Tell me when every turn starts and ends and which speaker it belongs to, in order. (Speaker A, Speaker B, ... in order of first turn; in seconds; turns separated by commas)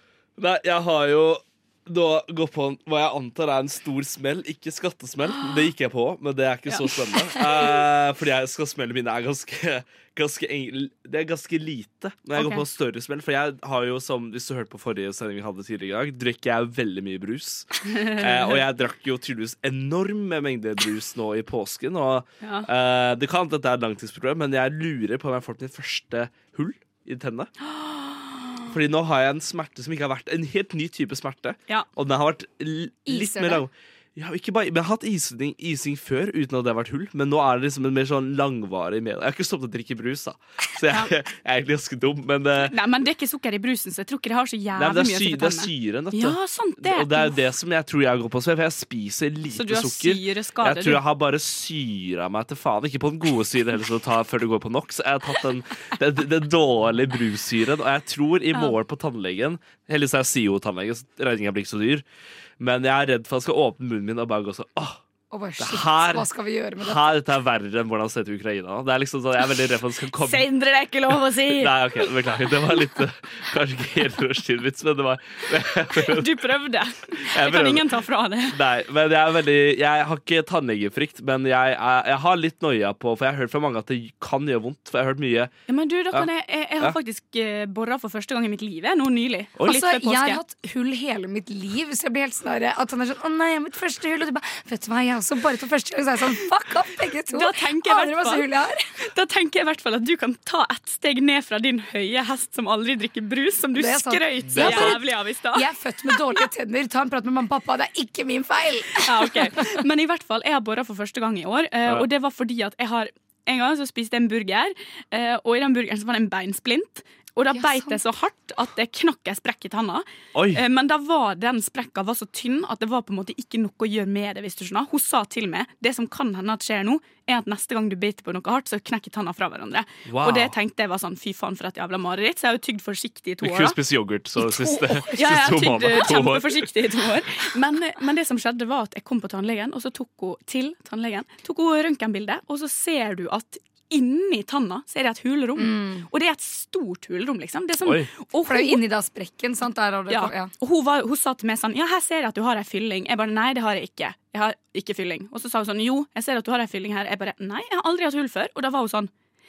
Speaker A: 0.4-27.5, Speaker B: 6.7-7.0, Speaker B: 12.4-12.6, Speaker B: 17.9-18.6, Speaker B: 22.4-22.7, Speaker B: 27.6-28.7, Speaker A: 28.7-42.8, Speaker C: 33.1-33.6, Speaker B: 42.6-47.4, Speaker A: 44.8-62.0, Speaker B: 49.5-51.0, Speaker A: 62.6-65.0, Speaker C: 65.3-67.1, Speaker A: 65.6-66.3, Speaker A: 66.8-70.5, Speaker B: 70.2-72.1, Speaker A: 71.1-76.3, Speaker B: 75.9-78.6, Speaker A: 77.2-78.0, Speaker A: 78.5-85.5, Speaker B: 85.7-90.4, Speaker C: 89.6-98.9, Speaker B: 97.3-98.5, Speaker B: 99.0-106.4, Speaker C: 103.8-109.7, Speaker A: 104.5-105.0, Speaker B: 109.0-133.8, Speaker C: 117.5-118.0, Speaker A: 120.3-120.6, Speaker A: 130.1-130.5, Speaker A: 133.4-136.7, Speaker C: 134.4-135.2, Speaker B: 135.2-148.8, Speaker C: 145.6-146.1, Speaker A: 147.8-148.1, Speaker C: 148.5-150.5, Speaker B: 150.1-159.1